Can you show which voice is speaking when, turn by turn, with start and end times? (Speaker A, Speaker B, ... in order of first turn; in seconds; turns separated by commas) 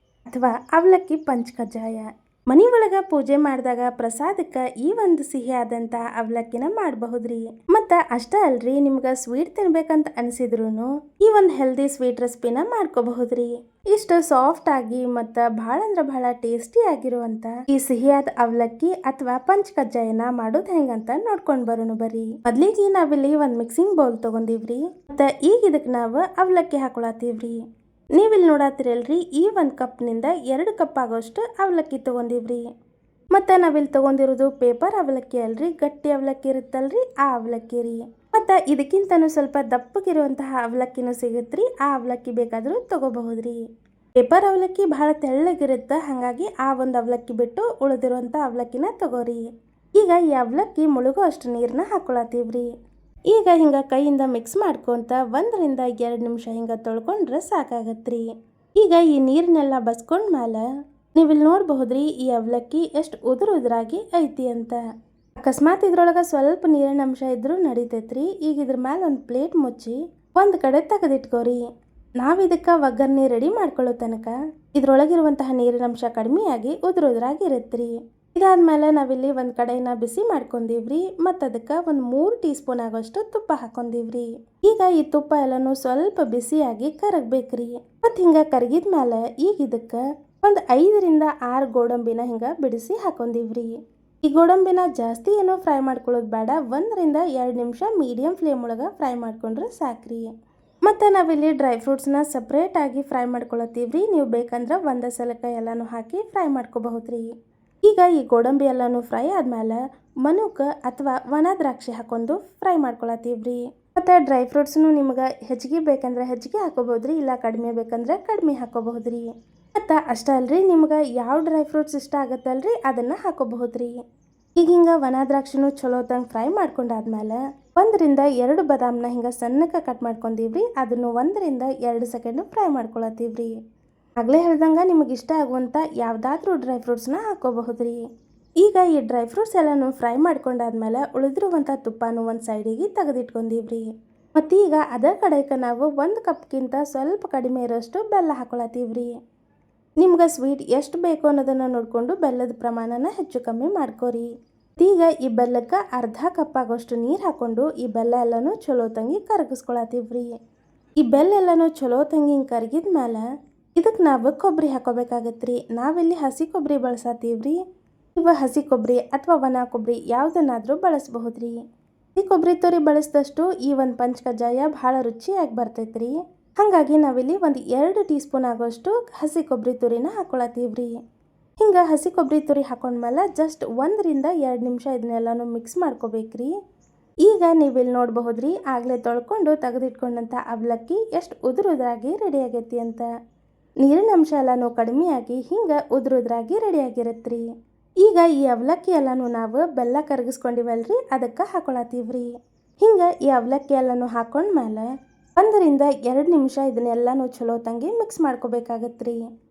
Speaker A: 0.3-27.6, Speaker A: 28.1-32.6, Speaker A: 33.3-43.6, Speaker A: 44.2-49.4, Speaker A: 50.0-52.7, Speaker A: 53.3-58.2, Speaker A: 58.8-64.8, Speaker A: 65.4-71.6, Speaker A: 72.2-93.7, Speaker A: 94.2-100.3, Speaker A: 100.8-107.2, Speaker A: 107.8-119.3, Speaker A: 119.8-123.9, Speaker A: 124.6-133.5, Speaker A: 134.2-138.0, Speaker A: 138.6-149.1, Speaker A: 150.0-154.3, Speaker A: 154.8-160.3, Speaker A: 161.0-163.2, Speaker A: 163.8-167.6, Speaker A: 168.2-171.6, Speaker A: 172.2-180.9, Speaker A: 181.6-186.5, Speaker A: 187.2-193.1, Speaker A: 193.8-197.4, Speaker A: 198.0-202.3, Speaker A: 202.8-204.8, Speaker A: 205.4-209.2